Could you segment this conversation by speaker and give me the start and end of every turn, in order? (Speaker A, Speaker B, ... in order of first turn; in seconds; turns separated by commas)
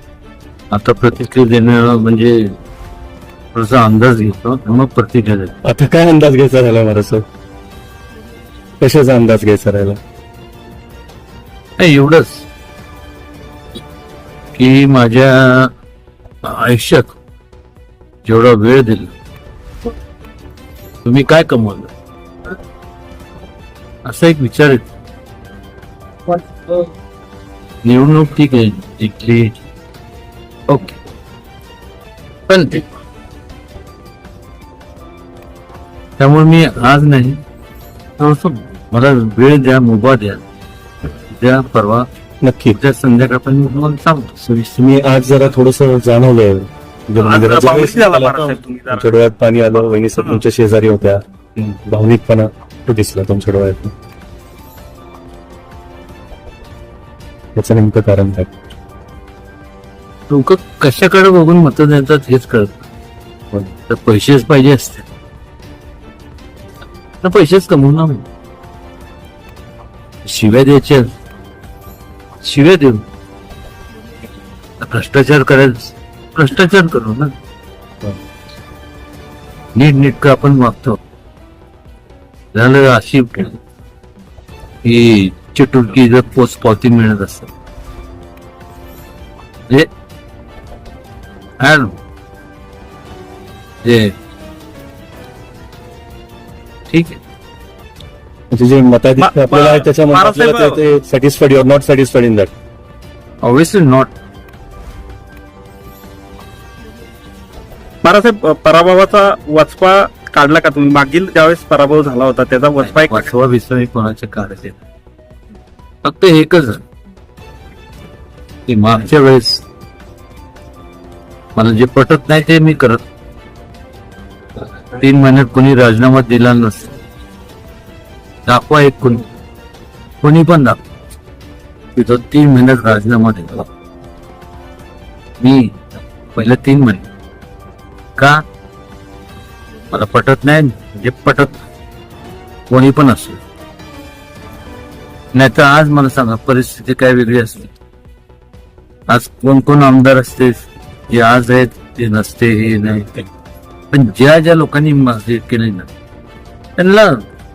Speaker A: 0.7-2.6, Speaker A: 3.5-5.6, Speaker B: 5.6-7.2, Speaker B: 8.8-10.0, Speaker A: 11.8-12.5, Speaker A: 14.5-15.7, Speaker A: 16.4-17.1, Speaker A: 18.2-19.1, Speaker A: 21.0-21.9, Speaker A: 24.1-24.9, Speaker A: 26.3-26.9, Speaker A: 27.8-29.6, Speaker A: 30.7-31.0, Speaker A: 32.5-32.9, Speaker A: 36.2-37.4, Speaker A: 38.2-40.4, Speaker A: 41.3-42.1, Speaker B: 42.4-42.8, Speaker A: 42.7-44.6, Speaker B: 44.7-53.9, Speaker C: 47.2-49.1, Speaker B: 57.6-58.5, Speaker A: 60.3-62.7, Speaker A: 63.9-65.1, Speaker A: 67.2-68.3, Speaker A: 70.2-71.2, Speaker A: 72.4-73.0, Speaker A: 74.8-77.3, Speaker A: 79.8-81.0, Speaker A: 82.5-83.6, Speaker A: 84.8-87.5, Speaker A: 91.6-92.0, Speaker A: 93.8-94.1, Speaker A: 96.9-97.2, Speaker B: 98.5-102.5, Speaker C: 99.2-100.8, Speaker A: 103.4-104.1, Speaker C: 108.0-113.3, Speaker A: 112.8-114.8, Speaker A: 116.0-116.8, Speaker A: 118.7-119.7, Speaker A: 121.6-123.0, Speaker A: 124.9-126.9, Speaker A: 128.5-129.3, Speaker A: 130.2-130.8, Speaker A: 131.9-133.7, Speaker A: 135.4-135.8, Speaker A: 136.3-137.1, Speaker A: 138.2-138.4, Speaker A: 139.9-141.6, Speaker A: 142.7-143.4, Speaker A: 145.3-147.7, Speaker A: 149.1-153.3, Speaker A: 153.9-155.9, Speaker A: 156.8-157.2